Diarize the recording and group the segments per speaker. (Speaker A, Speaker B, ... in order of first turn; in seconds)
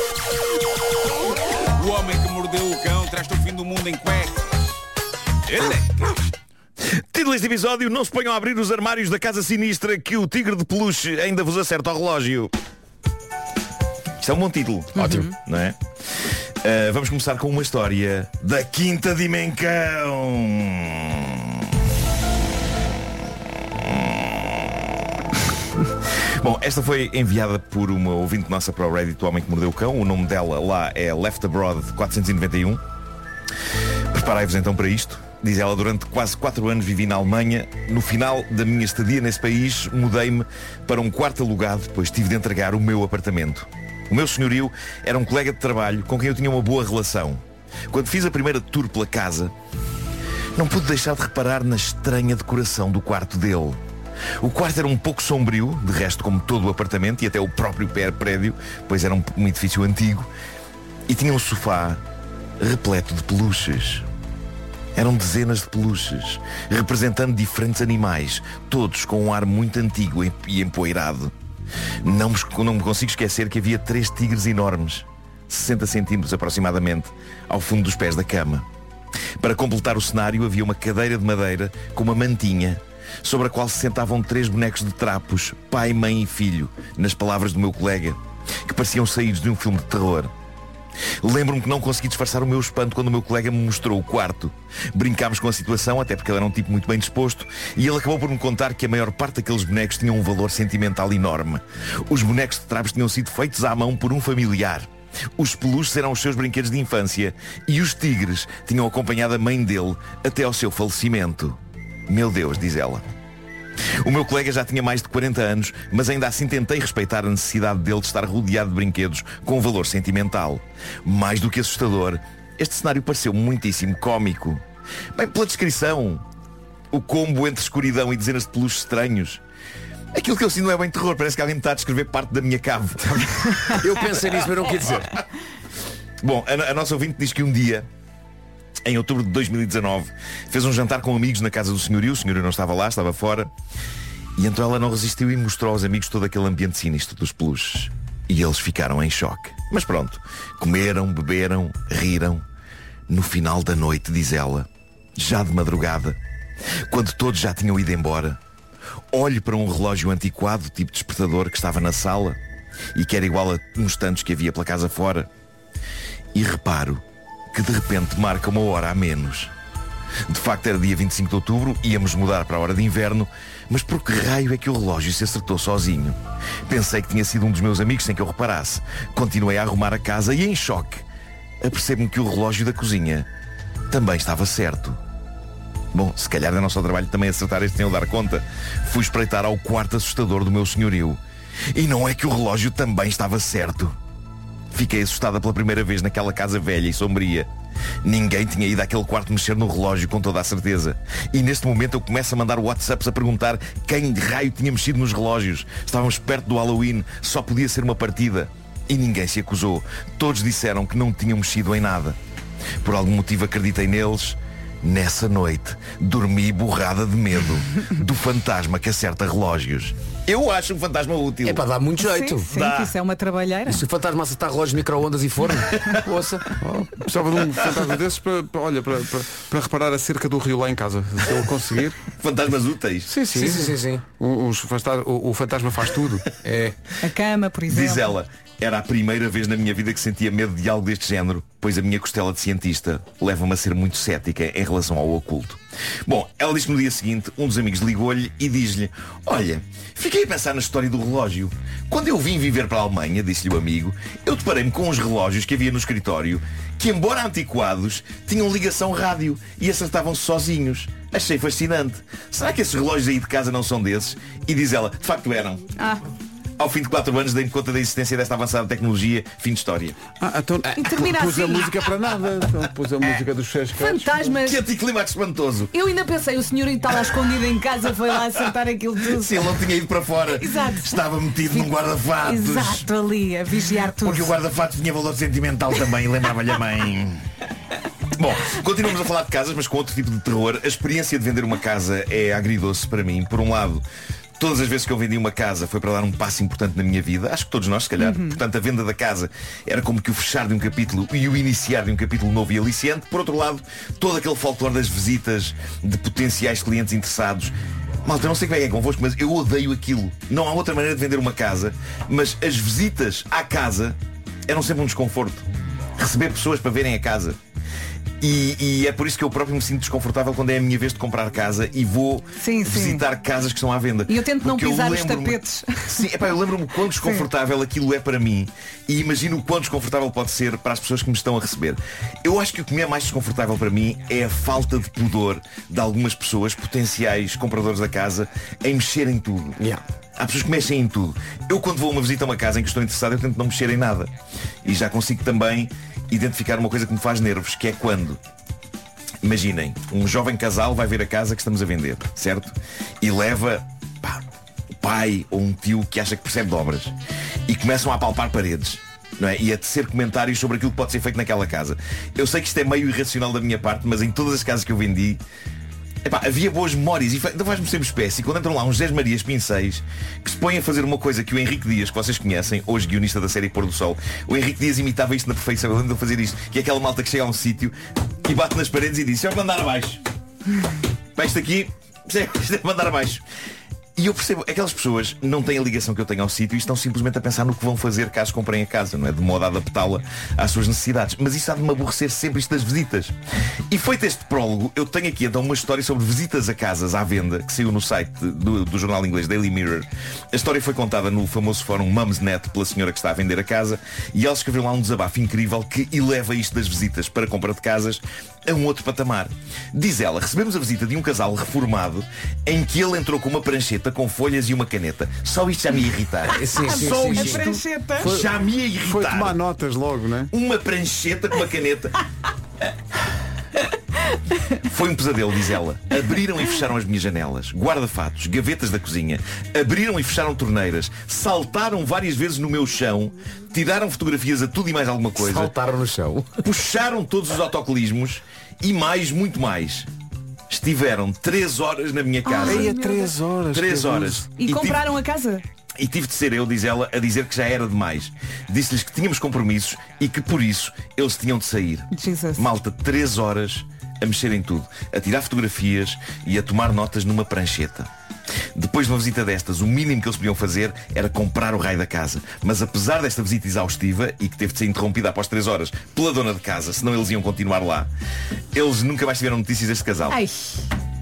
Speaker A: 1.7-4.7, 5.5-6.3
Speaker B: 6.8-12.5, 14.2-21.6, 23.9-24.8, 26.2-32.8, 34.1-49.5, 50.5-53.8, 54.4-60.3, 61.1-62.0, 62.6-64.1, 65.0-71.3, 72.0-78.7, 79.4-90.3, 91.2-113.0, 114.0-124.6, 125.1-126.2, 126.9-129.4, 130.1-133.8, 136.2-137.9, 138.8-143.5, 144.4-152.4, 153.1-156.2, 156.9-158.4, 159.1-162.4, 162.9-165.3, 166.3-169.5, 170.3-181.0, 181.6-183.3, 183.9-185.0, 185.9-191.2, 191.7-193.9, 194.7-197.5, 198.0-212.2, 212.8-221.6, 222.5-222.9, 232.2-233.1, 237.7-265.6, 266.6-270.0, 274.4-275.7, 279.1-282.9, 283.9-287.3, 288.2-293.8, 294.4-307.5, 308.1-317.4, 318.2-339.7, 340.2-344.1, 344.6-348.2, 349.2-354.2, 354.8-356.9, 357.5-365.2, 366.1-380.0, 381.1-383.2, 384.0-393.1, 393.7-419.4, 420.3-422.0, 424.6-435.5, 436.4-439.9, 440.5-442.7, 443.5-444.9, 445.8-457.9, 458.6-467.9, 468.5-470.2
Speaker C: 15.0-15.3, 133.1-135.2, 221.4-222.5, 223.7-226.5, 233.3-234.0, 236.4-236.9, 416.3-418.3, 435.2-436.4
Speaker D: 222.0-223.8, 237.0-238.1, 265.8-266.1, 270.8-271.7, 273.7-274.6, 275.7-279.5, 280.3-281.0, 282.2-284.3, 298.0-298.4, 322.4-323.0, 324.1-326.1, 327.0-327.3, 416.6-418.1, 442.2-443.2, 444.4-445.4, 451.9-452.4, 470.1-470.7
Speaker E: 226.6-232.0, 233.1-236.3, 270.2-274.2, 418.9-420.3, 442.4-444.3